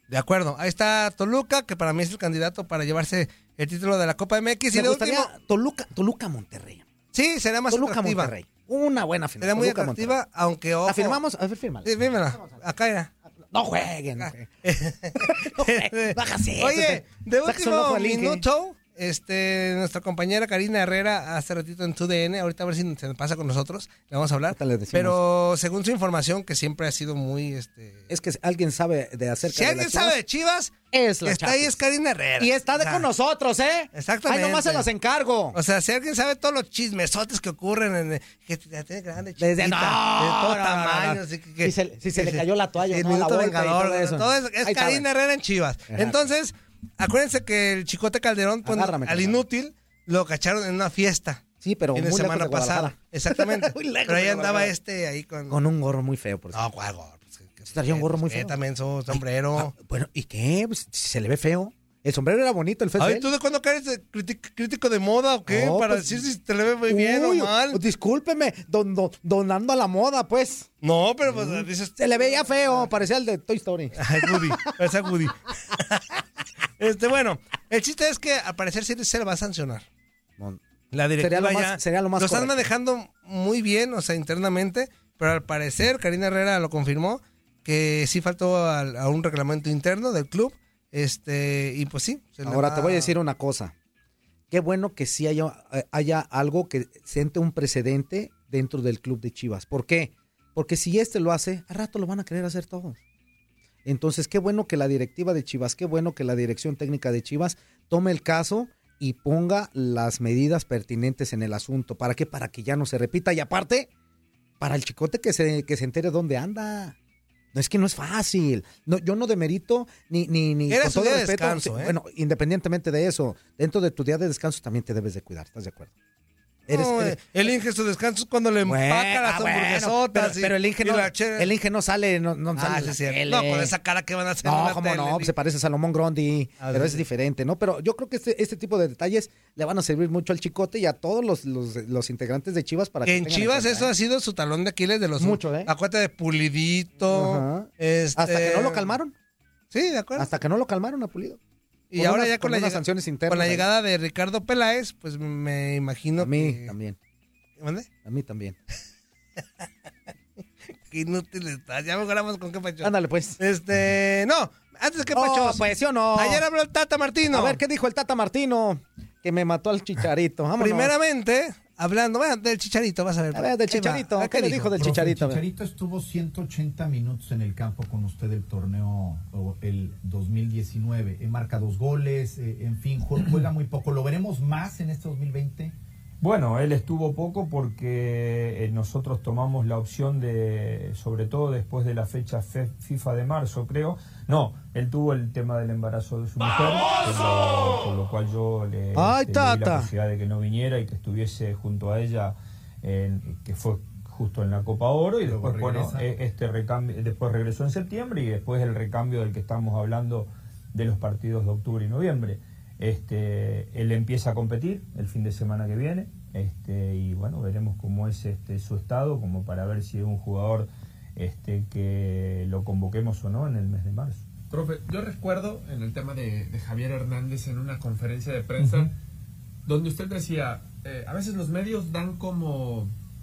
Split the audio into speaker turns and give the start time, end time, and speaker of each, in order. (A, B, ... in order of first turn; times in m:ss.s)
0:00.1-0:05.3 A
0:04.7-0:06.9 B
0:07.1-0:08.3 A
0:07.7-0:10.2 B
0:09.4-0:11.2 A
0:10.9-0:12.5 B
0:11.8-0:13.1 A
0:13.5-0:14.5 B
0:14.2-0:28.1 A
0:15.2-0:18.4 B
0:24.5-0:25.2 B
0:28.1-0:30.2 B
0:29.5-0:33.1 A
0:30.9-0:31.8 B
0:32.4-0:35.6 B
0:33.9-0:34.9 A
0:35.5-0:51.4 A
0:39.4-0:45.1 B
0:45.9-0:46.2 B
0:48.6-0:49.4 B
0:51.6-0:54.7 B
0:51.9-0:55.6 A
0:55.5-0:56.6 B
0:56.5-0:59.7 A
0:57.7-0:58.6 B
0:59.1-1:03.3 B
1:03.0-1:07.8 A
1:05.5-1:06.3 B
1:06.9-1:10.7 B
1:10.8-1:12.9 A
1:11.3-1:14.7 B
1:14.0-1:16.0 A
1:16.8-1:19.9 A
1:20.9-1:33.2 A
1:21.2-1:22.7 B
1:32.4-1:33.7 B
1:34.5-1:43.0 B
1:43.8-1:53.9 B
1:54.6-1:57.0 B
1:57.5-2:05.9 B
2:00.7-2:02.0 A
2:06.7-2:07.2 B
2:06.7-2:11.5 A
2:08.6-2:13.7 B
2:12.6-2:15.3 A
2:14.4-2:23.9 B
2:16.6-2:17.0 A
2:23.0-2:29.0 A
2:25.2-2:25.7 B
2:27.1-2:29.2 B
2:29.7-2:30.3 A
2:30.2-2:31.4 B
2:31.9-2:36.8 A
2:32.0-2:33.7 B
2:36.2-2:37.0 B
2:37.6-2:37.9 A
2:38.0-2:38.6 B
2:40.9-2:47.6 A
2:42.8-2:43.4 B
2:45.1-2:46.4 B
2:47.3-2:50.9 B
2:50.6-2:54.7 A
2:53.3-2:55.4 B
2:54.7-3:05.7 C
3:06.2-3:44.2 D
3:18.9-3:19.9 B
3:25.2-3:26.0 C
3:44.5-3:48.9 E
3:48.6-3:48.9 D
3:49.7-3:52.9 E